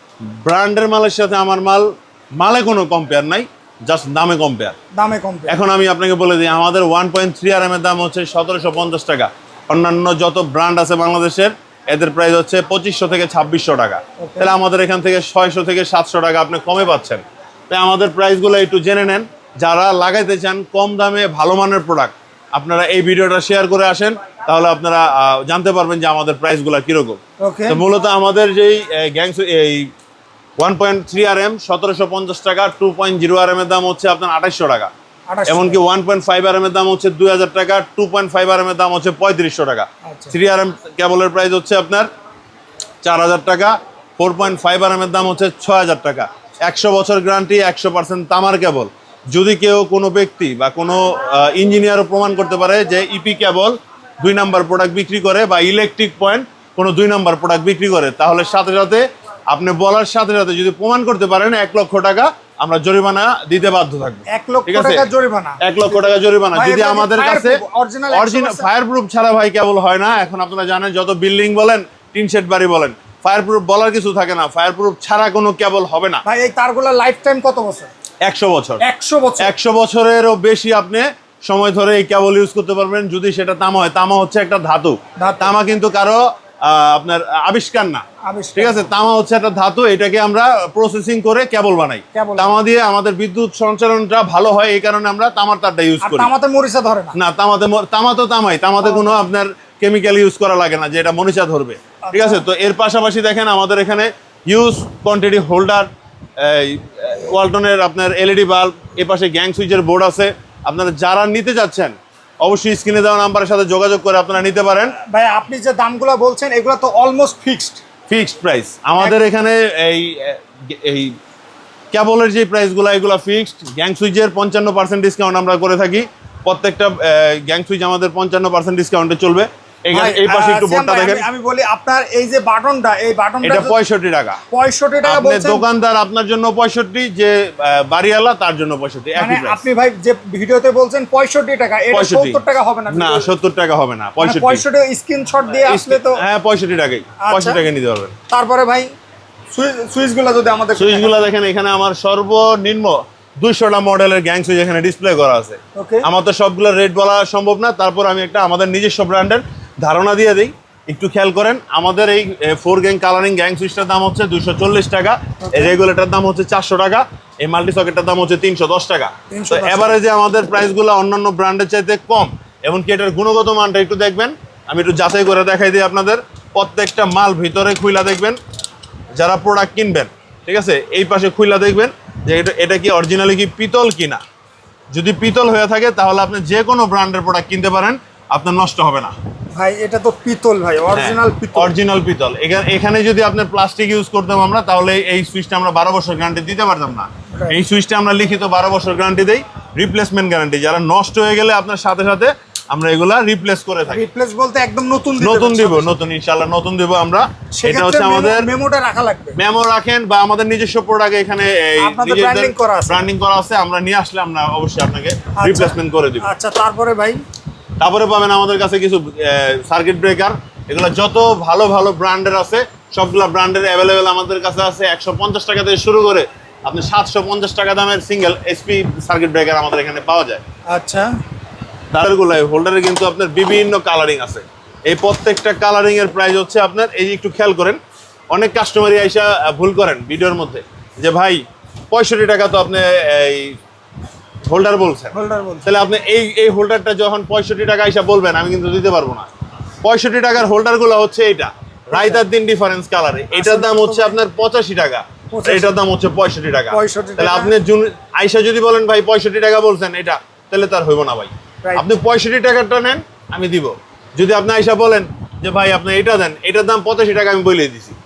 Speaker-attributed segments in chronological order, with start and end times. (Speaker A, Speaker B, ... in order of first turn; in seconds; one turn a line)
Speaker A: 0.2-4.8
Speaker B: 4.9-5.6
Speaker A: 5.5-29.9
Speaker B: 14.2-14.5
Speaker B: 27.4-27.8
Speaker A: 30.6-34.9
Speaker B: 35.3-35.8
Speaker A: 35.5-42.1
Speaker B: 40.1-40.3
Speaker A: 43.0-65.0
Speaker B: 64.3-66.0
Speaker A: 65.6-67.6
Speaker B: 66.5-68.7
Speaker A: 68.1-76.2
Speaker B: 76.2-77.9
Speaker A: 78.2-78.8
Speaker B: 78.8-79.5
Speaker A: 79.4-88.0
Speaker B: 85.2-85.5
Speaker B: 88.2-88.9
Speaker A: 88.6-96.3
Speaker B: 92.1-92.5
Speaker B: 96.0-97.2
Speaker A: 97.1-105.9
Speaker B: 102.0-102.4
Speaker A: 106.4-115.0
Speaker B: 115.0-117.8
Speaker A: 118.1-121.2
Speaker A: 121.9-131.2
Speaker B: 129.9-133.8
Speaker A: 133.4-134.4
Speaker B: 134.5-135.7
Speaker A: 135.1-139.6
Speaker B: 139.2-143.3
Speaker A: 141.9-142.4
Speaker A: 142.9-144.6
Speaker B: 144.2-146.2
Speaker A: 145.6-148.1
Speaker B: 147.2-147.6
Speaker B: 148.3-148.9
Speaker B: 149.5-151.1
Speaker A: 150.8-178.4
Speaker B: 155.8-156.1
Speaker B: 165.5-165.8
Speaker B: 169.3-170.0
Speaker A: 179.2-184.2
Speaker A: 184.9-189.1
Speaker B: 189.6-191.7
Speaker A: 190.9-204.1
Speaker B: 203.9-205.9
Speaker A: 205.2-208.5
Speaker B: 207.6-209.4
Speaker A: 209.4-216.3
Speaker B: 211.8-213.1
Speaker B: 215.4-217.2
Speaker A: 217.8-230.4
Speaker B: 230.7-231.1
Speaker A: 231.9-243.6
Speaker A: 244.5-249.3
Speaker B: 245.1-245.7
Speaker A: 249.8-268.0
Speaker B: 251.9-252.2
Speaker B: 253.3-254.2
Speaker B: 255.3-255.7
Speaker B: 256.7-257.5